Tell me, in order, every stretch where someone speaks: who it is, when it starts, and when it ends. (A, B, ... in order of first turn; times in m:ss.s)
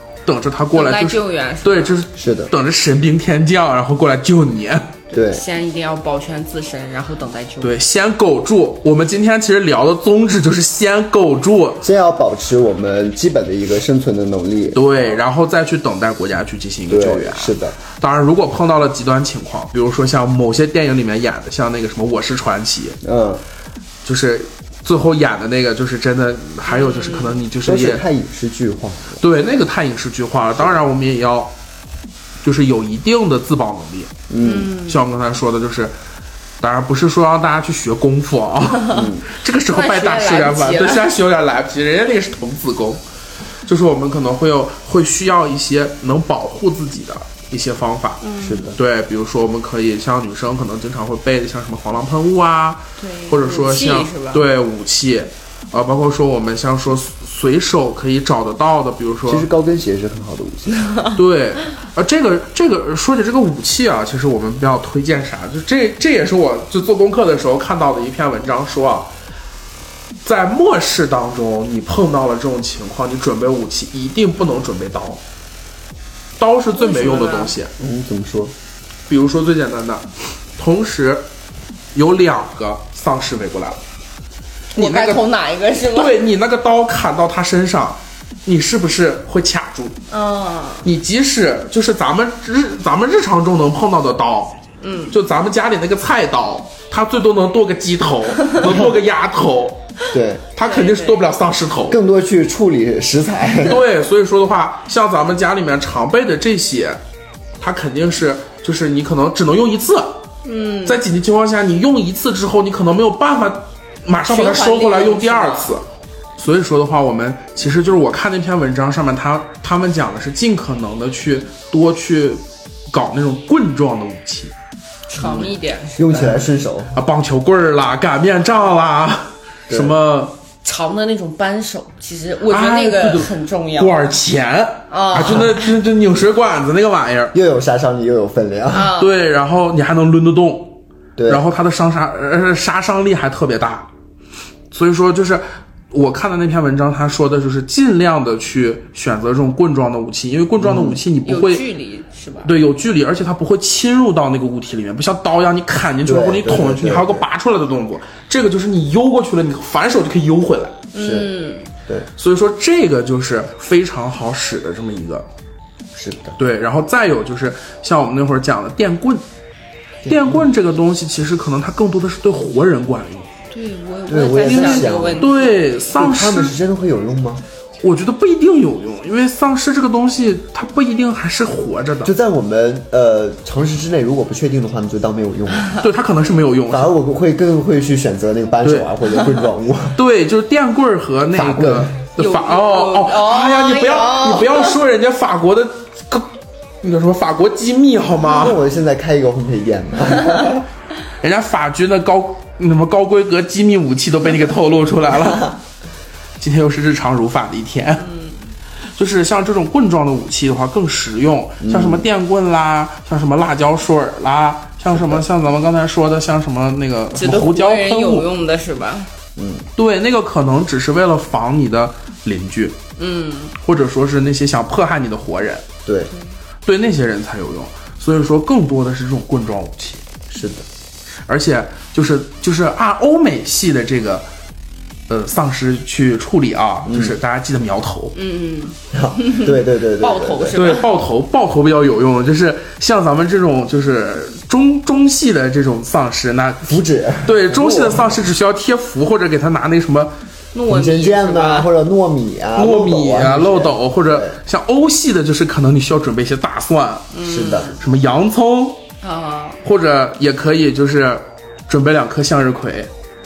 0:00.2-0:04.9 A
0:00.7-0:02.0 B
0:02.2-0:02.5 C
0:05.1-0:07.8 B
0:05.1-0:05.4 C
0:07.6-0:11.8 A
0:11.8-0:14.8 C
0:14.7-0:23.0 A
0:16.9-0:17.8 C
0:23.0-0:23.4 C
0:24.0-0:28.0 A
0:26.7-0:27.4 B
0:27.6-0:29.2 C
0:29.2-0:31.5 A
0:32.4-0:36.0 A
0:34.3-0:34.7 C
0:34.4-0:35.0 B
0:36.6-0:43.0 A
0:38.9-0:39.2 C
0:39.7-0:41.1 B
0:43.7-0:48.2 A
0:48.2-0:48.8 B
0:48.4-0:48.8 C
0:48.8-0:59.5 A
0:53.0-0:54.4 B
0:59.3-1:00.9 C
1:00.8-1:01.1 B
1:01.1-1:09.1 A
1:10.2-1:15.2 A
1:16.4-1:17.7 A
1:16.8-1:17.5 B
1:17.8-1:18.5 C
1:19.1-1:21.2 A
1:21.9-1:23.8 A
1:24.7-1:25.2 A
1:24.8-1:26.2 B
1:25.9-1:30.0 A
1:30.1-1:30.9 B
1:30.8-1:34.6 A
1:34.8-1:35.1 B
1:35.1-1:39.8 A
1:38.6-1:38.9 C
1:40.1-1:40.5 C
1:40.6-1:42.0 A
1:40.6-1:41.2 B
1:41.9-1:43.8 C
1:43.6-1:47.0 A
1:47.6-1:50.2 A
1:50.4-1:51.0 B
1:50.9-1:55.8 A
1:54.3-1:55.8 B
1:56.4-2:04.5 A
2:05.1-2:06.5 B
2:05.2-2:07.0 C
2:07.0-2:10.4 A
2:09.7-2:09.9 C
2:10.6-2:14.0 B
2:12.5-2:17.4 A
2:14.9-2:15.7 B
2:17.3-2:19.0 C
2:18.7-2:19.1 B
2:19.0-2:23.9 A
2:21.2-2:21.4 C
2:24.7-2:31.6 A
2:30.6-2:31.0 C
2:31.2-2:32.5 B
2:32.4-2:40.8 A
2:36.0-2:37.2 C
2:40.9-2:41.7 B
2:41.0-2:41.3 C
2:42.2-2:45.3 A
2:45.9-2:46.4 C
2:46.4-2:49.2 A
2:50.0-2:50.5 C
2:50.1-2:53.3 A
2:53.5-2:55.8 B
2:54.1-2:55.3 C
2:54.5-2:56.6 A
2:56.0-2:57.4 C
2:57.8-3:02.1 A
3:02.0-3:05.8 C
3:05.8-3:06.9 A
3:06.7-3:10.0 C
3:08.6-3:16.3 A
3:11.3-3:12.0 C
3:12.2-3:14.8 B
3:16.8-3:18.6 A
3:18.2-3:20.7 C
3:21.2-3:25.6 A
3:26.4-3:28.1 A
3:28.0-3:28.4 B
3:29.0-3:38.3 A
3:31.6-3:32.1 C
3:34.9-3:35.2 C
3:37.1-3:39.1 B
3:39.4-3:39.7 C
3:39.8-3:42.8 A
3:43.0-3:43.5 B
3:43.6-3:45.6 A
3:45.8-3:46.1 C
3:46.6-3:50.0 A
3:50.3-3:50.7 C
3:51.3-3:54.3 A
3:55.1-3:58.2 A
3:56.9-3:57.2 C
3:58.2-4:00.9 B
3:58.9-4:00.7 C
4:00.6-4:10.1 A
4:06.6-4:08.2 C
4:10.5-4:11.7 B
4:10.7-4:14.4 C
4:12.6-4:17.1 A
4:17.1-4:17.8 B
4:17.2-4:17.8 C
4:17.8-4:18.8 A
4:19.0-4:19.6 B
4:19.6-4:22.9 A